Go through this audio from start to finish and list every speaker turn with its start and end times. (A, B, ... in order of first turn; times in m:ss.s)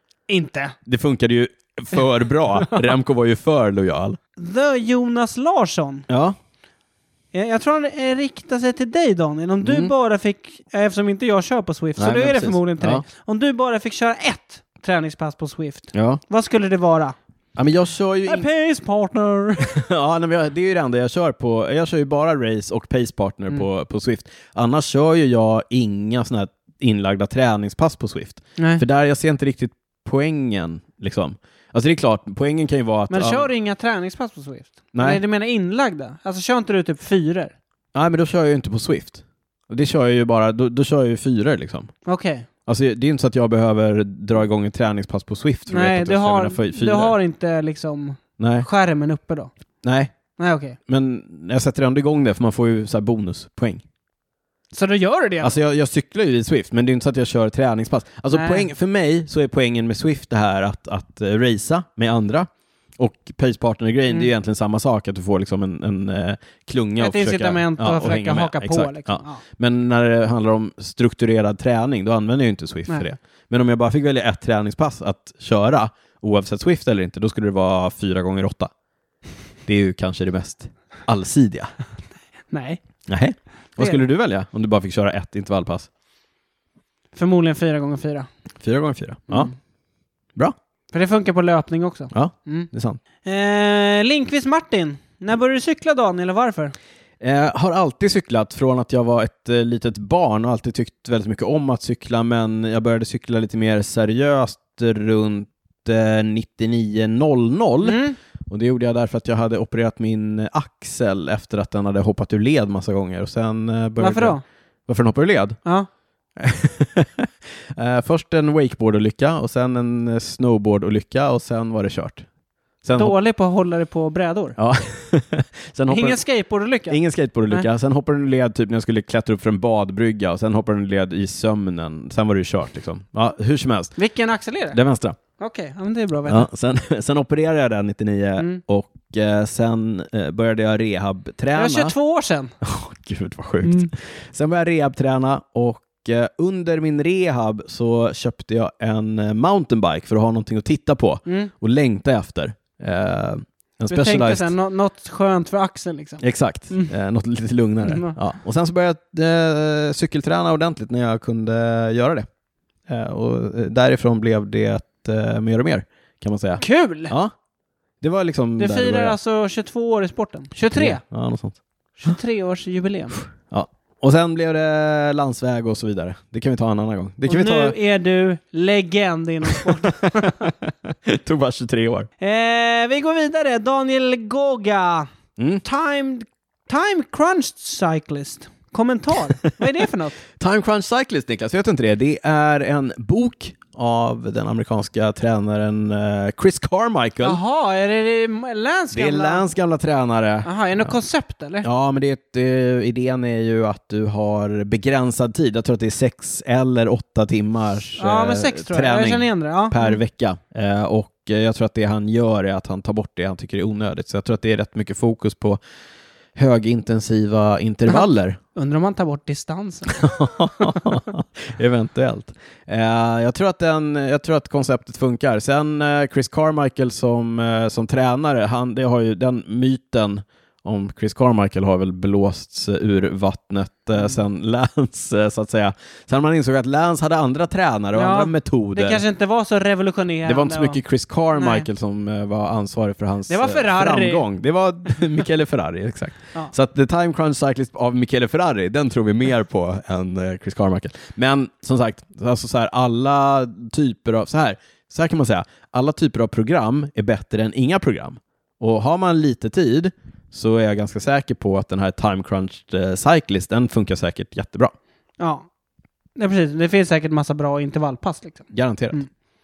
0:00.3-0:00.8 A
0:00.8-0:04.2 B
0:04.4-0:06.0 A
0:06.1-0:06.4 B
0:07.3-0:17.1 A
0:09.6-0:09.9 B
0:12.0-0:13.0 B
0:15.9-0:16.2 B
0:17.6-0:18.4 B
0:18.2-0:19.8 A
0:19.6-0:33.5 B
0:28.6-0:28.8 A
0:33.1-0:37.5 A
0:34.9-0:35.2 B
0:37.9-0:41.9 B
0:42.0-0:42.5 A
0:42.7-0:47.1 B
0:45.7-0:49.5 A
0:48.4-0:48.7 B
0:49.8-0:50.1 B
0:50.4-0:50.8 A
0:50.9-0:53.8 B
0:54.7-0:55.6 A
0:55.4-1:18.7 B
0:58.3-0:58.7 A
1:07.0-1:09.4 A
1:19.6-1:21.7 B
1:22.5-1:22.8 A
1:23.1-1:25.9 B
1:27.2-1:28.3 A
1:28.6-1:29.5 B
1:30.9-1:32.7 A
1:32.1-1:33.0 B
1:33.2-1:36.7 A
1:37.2-1:55.6 B
1:47.8-1:48.2 A
1:54.0-1:54.4 A
1:56.4-2:02.2 B
2:02.8-2:03.1 B
2:02.9-2:04.6 A
2:04.6-2:06.2 B
2:05.9-2:07.7 A
2:06.9-2:14.0 B
2:14.0-2:14.8 A
2:14.7-2:15.2 B
2:15.4-2:16.4 A
2:16.3-2:21.9 B
2:21.5-2:22.5 A
2:22.6-2:34.5 B
2:23.6-2:23.9 A
2:31.2-2:31.5 A
2:33.9-2:36.9 A
2:36.2-2:42.2 B
2:37.8-2:38.2 A
2:42.9-2:47.3 B
2:46.6-2:47.1 A
2:48.0-2:49.2 B
2:48.6-2:51.0 A
2:50.7-2:52.1 B
2:52.0-2:53.2 A
2:53.5-2:57.8 B
2:57.3-3:00.5 A
2:59.5-3:02.1 B
3:02.2-3:05.1 A
3:05.4-3:05.6 B
3:05.6-3:10.2 A
3:10.4-3:17.4 B
3:17.2-3:19.5 A
3:18.9-3:20.9 B
3:20.4-3:21.6 A
3:21.6-3:35.6 B
3:28.0-3:30.0 A
3:36.4-3:38.4 B
3:37.9-3:40.8 A
3:39.9-3:59.0 B
3:57.9-4:00.8 A
4:00.2-4:24.7 B
4:01.4-4:01.6 A
4:03.3-4:04.2 A
4:25.2-4:25.5 A
4:26.2-4:29.1 A
4:28.5-4:29.0 B